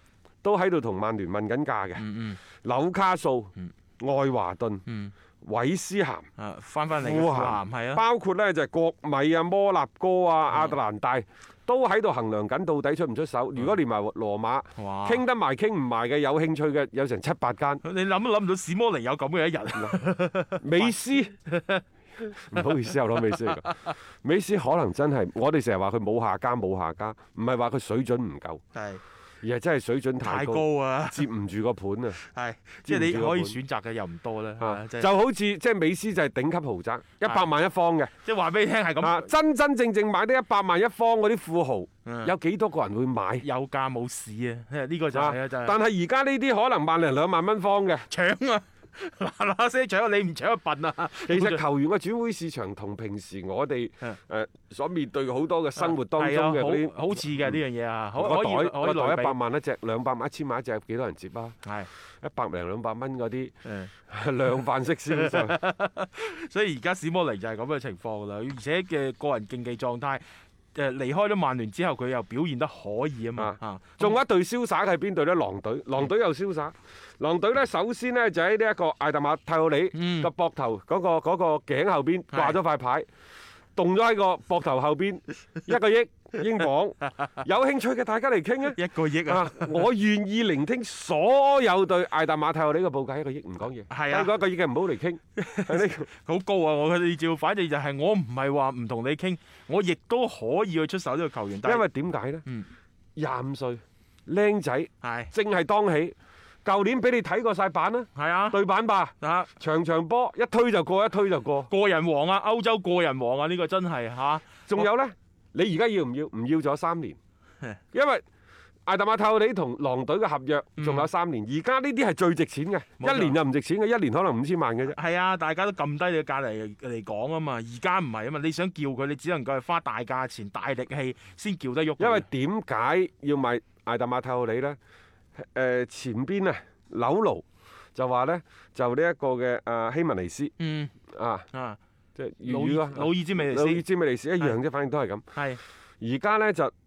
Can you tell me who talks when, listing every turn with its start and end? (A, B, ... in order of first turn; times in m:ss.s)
0:00.4-0:02.0 A
0:02.0-0:02.4 B
0:02.6-0:04.8 A
0:04.9-0:05.1 B
0:05.4-0:06.3 A
0:06.4-0:08.0 B
0:06.9-0:17.8 A
0:10.5-0:10.8 B
0:14.8-0:15.2 B
0:17.8-0:23.9 B
0:19.7-0:20.0 A
0:20.6-0:21.3 A
0:22.4-0:28.6 A
0:28.7-0:29.0 B
0:29.4-0:32.2 A
0:30.2-0:31.3 B
0:32.2-0:35.1 B
0:32.8-0:33.6 A
0:34.6-0:38.1 A
0:37.2-0:37.5 B
0:38.2-0:39.2 B
0:39.0-0:43.4 A
0:42.0-0:42.3 B
0:43.4-0:45.7 B
0:45.1-0:48.1 A
0:48.1-0:51.6 B
0:51.2-0:57.6 A
0:55.8-0:59.4 B
0:58.1-1:01.6 A
1:01.6-1:01.9 B
1:02.2-1:03.5 A
1:03.6-1:03.9 B
1:04.1-1:05.6 A
1:05.1-1:14.2 B
1:13.4-1:23.1 A
1:19.9-1:20.3 B
1:22.3-1:22.6 B
1:23.7-1:36.1 A
1:28.7-1:29.9 B
1:33.9-1:34.3 B
1:35.4-1:41.8 B
1:41.6-1:42.4 A
1:43.2-1:51.7 A
1:45.0-1:45.3 B
1:48.2-1:48.6 B
1:49.2-1:49.5 B
1:51.7-1:54.9 B
1:54.7-1:57.2 A
1:57.9-1:58.2 A
1:58.8-2:05.0 A
2:00.8-2:01.1 B
2:03.0-2:03.4 B
2:04.9-2:12.3 B
2:12.0-2:14.8 A
2:15.4-2:17.4 A
2:17.9-2:20.5 A
2:20.6-2:20.9 B
2:21.1-2:21.5 A
2:21.5-2:21.8 B
2:22.2-2:25.2 A
2:22.4-2:23.8 B
2:25.3-2:25.6 B
2:26.0-2:26.7 A